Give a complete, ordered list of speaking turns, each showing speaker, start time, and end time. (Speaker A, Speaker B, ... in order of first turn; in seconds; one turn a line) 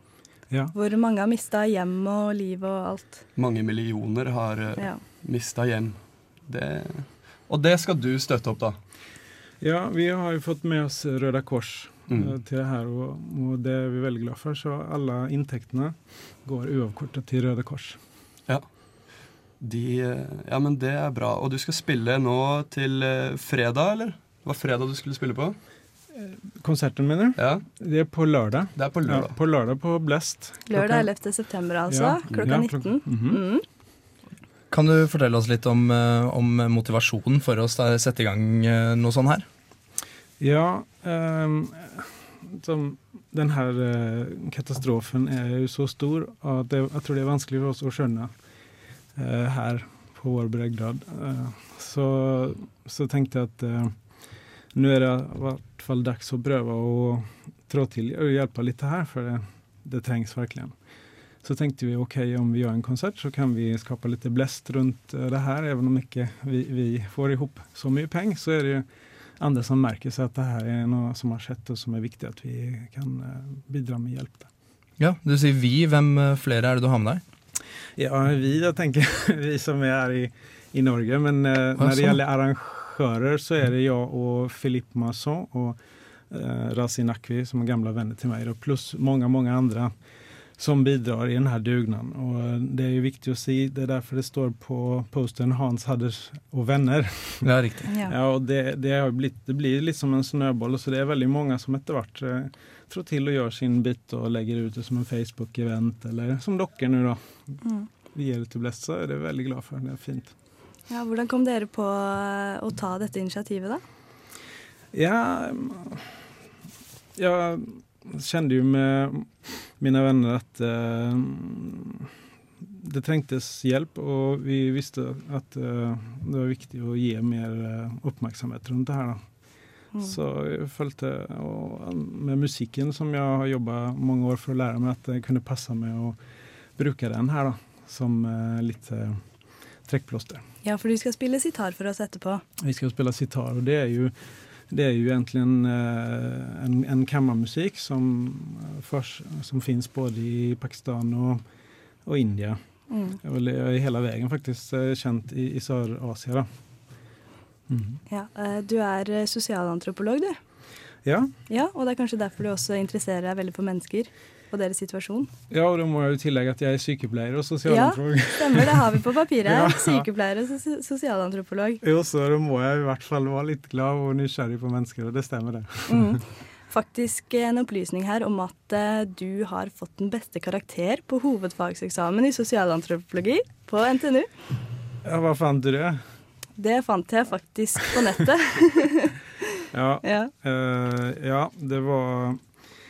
Speaker A: 0.7-3.2
Speaker B: 3.4-8.8
Speaker C: 9.6-18.0
Speaker B: 19.6-25.6
Speaker C: 26.1-31.1
Speaker B: 27.4-27.6
Speaker B: 28.8-29.4
Speaker A: 30.7-33.6
Speaker C: 31.9-33.4
Speaker D: 34.7-39.5
Speaker C: 40.4-48.3
Speaker C: 49.2-53.9
Speaker C: 54.8-60.7
Speaker C: 61.4-68.8
Speaker C: 69.4-74.5
Speaker D: 75.0-77.2
Speaker C: 78.0-85.8
Speaker D: 81.8-82.2
Speaker C: 86.3-89.9
Speaker C: 90.6-97.5
Speaker D: 97.4-97.9
Speaker A: 97.9-98.1
Speaker C: 98.0-107.2
Speaker C: 108.1-110.3
Speaker A: 110.9-113.8
Speaker C: 114.9-116.1
Speaker C: 117.2-122.1
Speaker C: 122.6-129.2
Speaker C: 130.0-136.2
Speaker C: 136.8-139.2
Speaker C: 139.9-140.4
Speaker A: 140.6-142.4
Speaker C: 142.6-144.1
Speaker C: 144.7-151.4
Speaker C: 152.1-152.6
Speaker A: 152.9-153.2
Speaker C: 153.2-156.5
Speaker C: 157.7-158.0
Speaker A: 158.1-160.4
Speaker C: 161.1-161.3
Speaker A: 161.5-165.3
Speaker C: 165.5-170.1
Speaker A: 167.7-171.8
Speaker C: 171.8-176.2
Speaker A: 175.9-184.3
Speaker C: 185.0-186.0
Speaker A: 186.6-189.1
Speaker C: 189.7-192.4
Speaker A: 190.0-190.3